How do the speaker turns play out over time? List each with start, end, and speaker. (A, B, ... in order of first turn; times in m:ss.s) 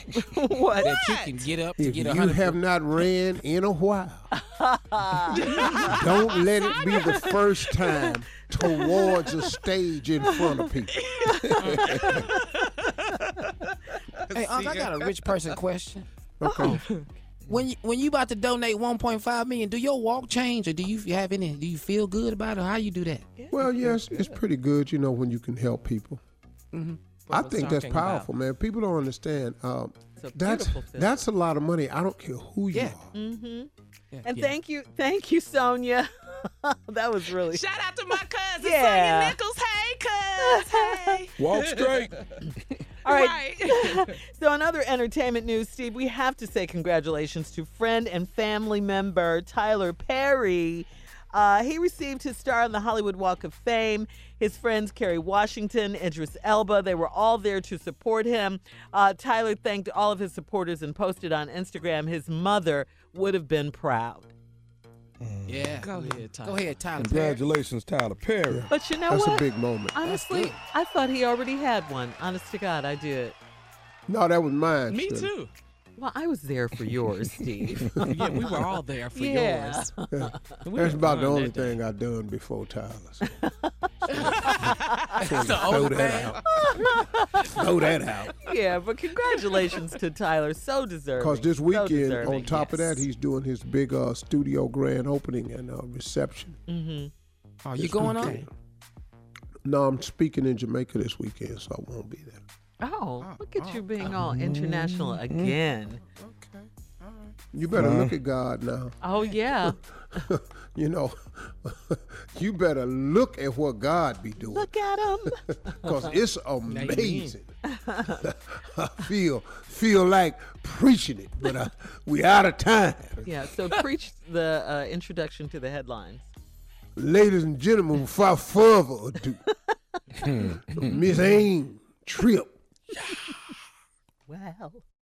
0:00.2-0:01.1 A
0:00.8-0:02.6 B
0:00.8-0:01.5 C
0:01.8-0:04.3 D
0:04.3-0:08.1 A
0:05.3-0:06.2 C
0:05.9-0:11.0 D
0:08.7-0:09.3 A
0:10.9-0:13.4 C
0:11.3-0:12.5 A
0:14.3-0:15.6 C
0:14.3-0:16.1 B
0:16.4-0:16.8 D
0:16.4-0:17.0 A
0:17.5-0:23.2 B
0:23.4-0:24.4 A
0:23.5-0:26.2 D
0:26.7-0:27.0 B
0:27.2-0:28.3 C
0:27.3-0:33.1 D
0:30.2-0:31.2 A
0:32.7-0:33.0 B
0:33.1-0:33.7 A
0:34.1-0:34.6 B
0:34.2-0:37.6 A
0:37.5-0:42.2 C
0:38.6-0:39.4 A
0:40.4-0:41.2 A
0:41.4-0:42.2 E
0:43.0-0:44.1 C
0:43.0-1:04.3 A
1:05.2-1:05.8 E
1:05.5-1:07.4 B
1:05.8-1:06.6 C
1:07.0-1:08.7 E
1:08.5-1:10.1 D
1:08.7-1:13.4 A
1:10.0-1:10.6 B
1:14.1-1:15.3 D
1:14.9-1:15.5 C
1:16.0-1:17.9 A
1:18.0-1:19.9 C
1:19.1-1:20.5 A
1:20.1-1:23.2 D
1:20.6-1:21.8 C
1:23.4-1:25.2 A
1:24.1-1:26.4 C
1:25.2-1:26.4 D
1:26.4-1:33.0 A
1:27.4-1:28.3 D
1:31.2-1:36.6 D
1:36.7-1:37.1 A
1:37.6-1:38.5 B
1:37.8-1:38.5 D
1:39.6-1:42.4 D
1:42.8-1:46.0 A
1:44.2-1:45.6 E
1:46.2-1:46.6 B
1:46.2-1:47.2 C
1:47.5-1:48.9 D
1:47.7-1:48.2 E
1:49.0-1:50.2 A
1:49.6-1:54.7 D
1:54.4-1:56.1 A
1:55.5-1:57.5 D
1:56.7-1:57.3 C
1:56.8-1:57.2 B
1:57.6-1:58.2 A
1:58.2-2:03.2 D
2:03.2-2:06.3 A
2:07.0-2:09.4 D
2:10.2-2:10.9 E
2:10.3-2:12.6 D
2:10.8-2:11.4 A
2:14.3-2:14.8 A